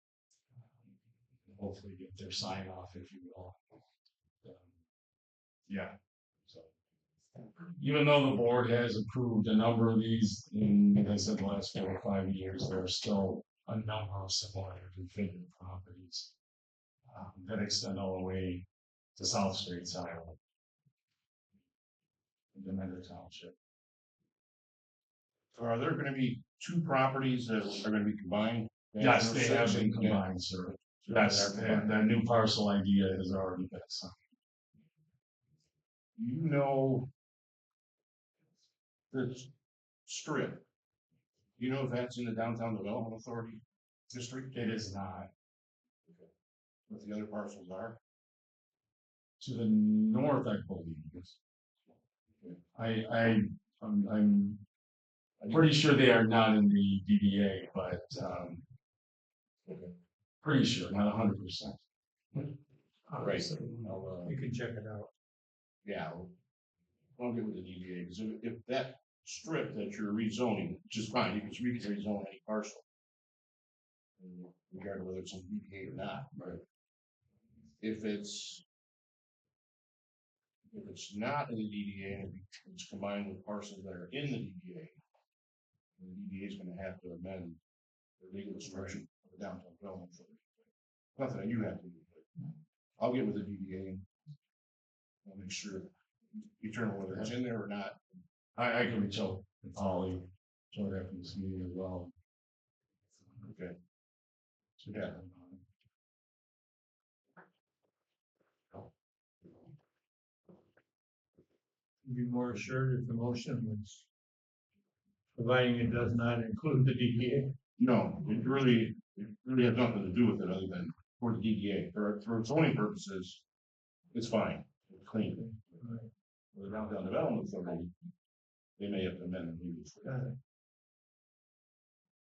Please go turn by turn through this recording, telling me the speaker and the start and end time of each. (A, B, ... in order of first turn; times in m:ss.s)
0:01.5-0:03.6 A
0:04.4-0:04.7 A
0:05.7-0:06.0 A
0:07.6-0:16.3 A
0:17.1-0:20.4 A
0:22.5-0:23.5 A
0:25.5-0:30.3 B
0:29.0-0:34.3 A
0:31.0-0:32.0 B
0:36.2-0:37.1 B
0:39.1-0:39.5 B
0:40.0-0:40.6 B
0:41.6-0:44.5 B
0:44.5-0:45.3 A
0:46.9-0:48.0 B
0:49.4-0:51.4 A
0:52.7-0:54.6 A
0:55.4-0:55.8 B
0:55.5-0:58.6 A
0:59.7-0:59.9 B
1:00.4-1:01.8 A
1:03.2-1:04.3 B
1:04.2-1:05.1 C
1:05.8-1:06.3 B
1:07.2-1:12.8 B
1:14.2-1:16.5 B
1:17.8-1:18.6 B
1:20.7-1:25.0 B
1:26.0-1:27.6 B
1:28.2-1:30.5 B
1:31.2-1:32.3 B
1:33.0-1:34.0 B
1:35.2-1:38.0 B
1:38.6-1:42.1 A
1:43.4-1:43.8 B
1:44.8-1:45.6 A
1:44.9-1:45.1 B
1:52.0-1:54.0 C
1:55.3-1:57.5 C
1:57.8-2:03.4 B
2:04.1-2:05.5 B
2:05.3-2:06.1 C
2:06.5-2:07.9 B
2:08.8-2:10.1 B
2:10.0-2:10.4 C